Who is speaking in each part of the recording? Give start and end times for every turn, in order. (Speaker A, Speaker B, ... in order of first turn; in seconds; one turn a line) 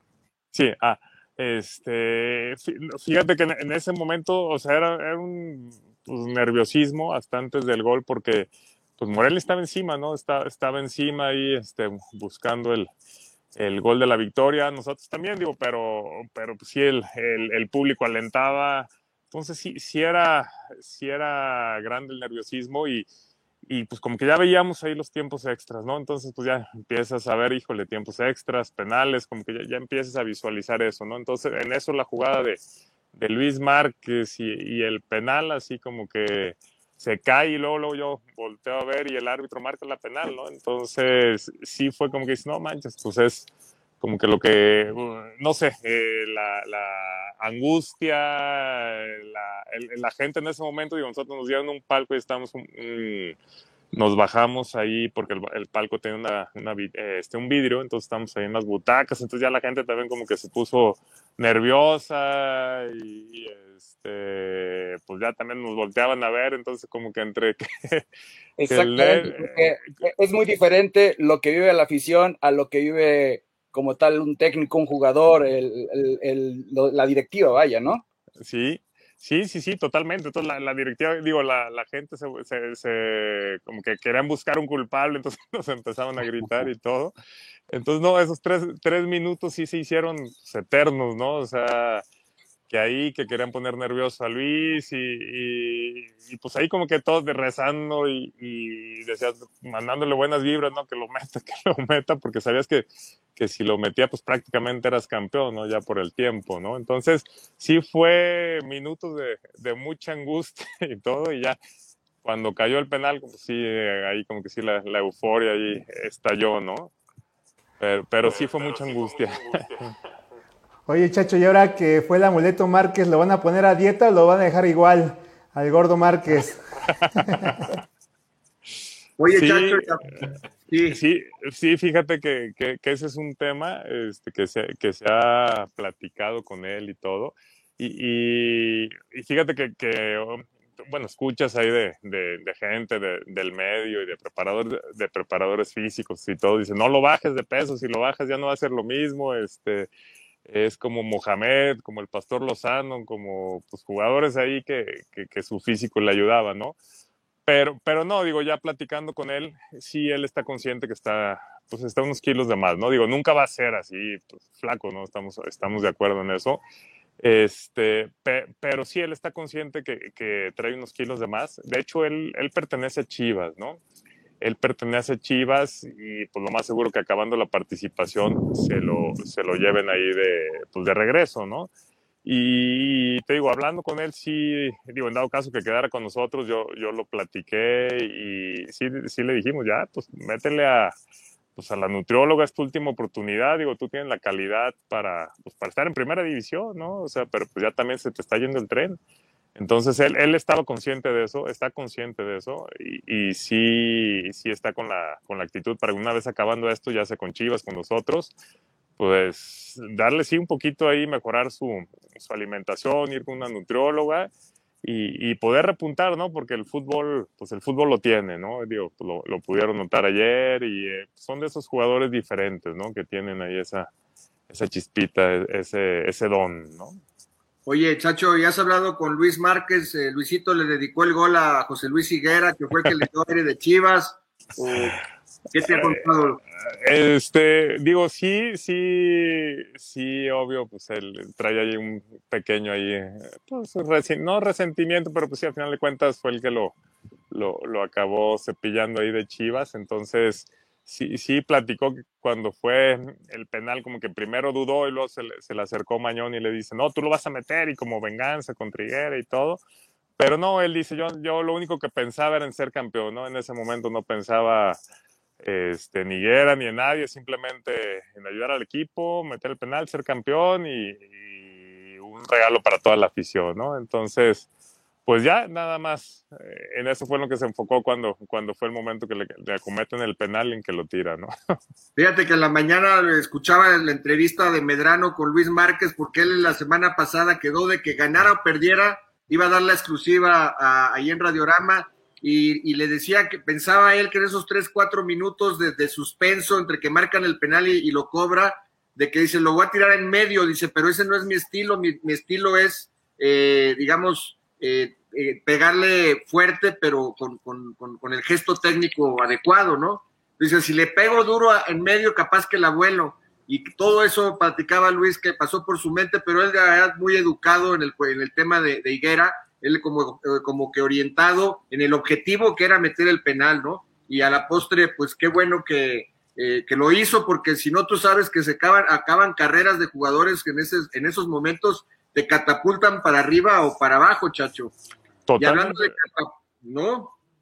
Speaker A: 0.5-12.9
Speaker A: 13.6-23.1
Speaker A: 23.7-32.6
Speaker A: 33.1-53.4
Speaker A: 53.9-68.1
Speaker B: 68.6-78.0
Speaker A: 68.6-70.0
Speaker A: 78.4-87.1
Speaker A: 87.7-92.0
Speaker A: 92.7-111.6
Speaker A: 112.2-116.9
Speaker A: 117.8-119.9
Speaker C: 120.9-126.6
Speaker A: 127.3-127.6
Speaker D: 129.2-130.1
Speaker A: 129.3-129.9
Speaker D: 130.7-131.0
Speaker A: 130.9-149.9
Speaker A: 150.4-156.8
Speaker A: 157.4-166.6
Speaker A: 167.2-173.8
Speaker A: 174.4-181.7
Speaker A: 182.2-190.9
Speaker A: 191.6-199.0
Speaker A: 199.6-208.3
Speaker A: 209.0-214.3
Speaker A: 214.8-223.9
Speaker A: 224.5-227.0
Speaker D: 227.7-235.0
Speaker D: 235.5-236.4
Speaker A: 236.7-246.8
Speaker A: 247.3-259.6
Speaker A: 260.2-264.8
Speaker A: 265.4-274.5
Speaker A: 275.1-281.3
Speaker D: 282.0-334.7
Speaker A: 335.3-335.9
Speaker D: 335.4-337.1